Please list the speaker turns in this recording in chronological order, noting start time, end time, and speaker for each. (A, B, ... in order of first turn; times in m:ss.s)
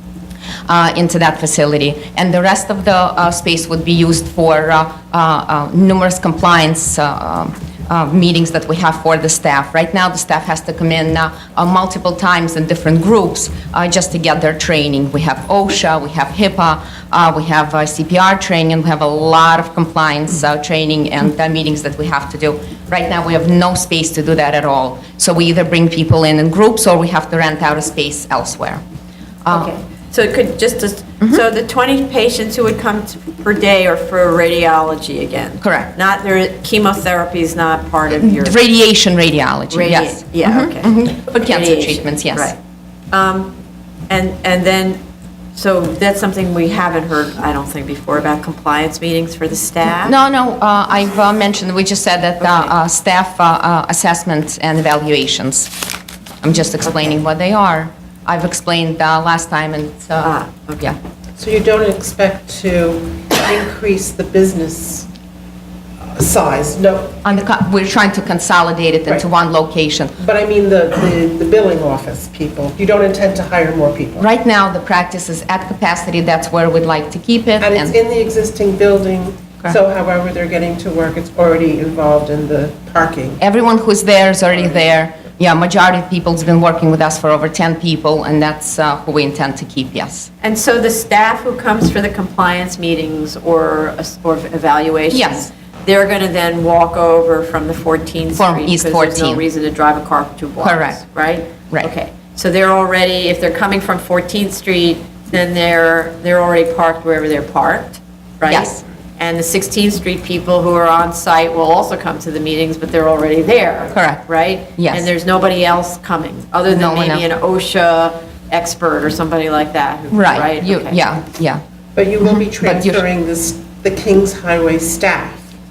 0:00.7-0:28.8 A
0:29.4-0:29.7 A
0:29.5-0:38.6 B
0:35.6-0:35.9 A
0:38.2-0:42.5 A
0:39.7-0:42.6 B
0:43.1-0:43.6 B
0:44.1-0:45.0 B
0:45.5-0:50.1 B
0:50.0-0:55.7 A
0:52.4-0:52.7 B
0:56.4-1:01.0 A
1:00.2-1:00.9 B
1:01.4-1:05.1 C
1:06.1-1:07.2 C
1:07.2-1:10.2 A
1:10.2-1:14.3 C
1:14.2-1:18.0 A
1:17.6-1:23.4 C
1:23.4-1:30.3 A
1:30.4-2:01.0 B
1:35.1-1:35.5 A
1:38.4-1:39.4 A
1:40.6-1:41.0 A
1:48.4-1:48.8 A
1:53.9-1:55.1 A
1:56.7-1:57.2 A
2:00.1-2:01.6 A
2:02.0-2:05.4 C
2:02.2-2:03.0 A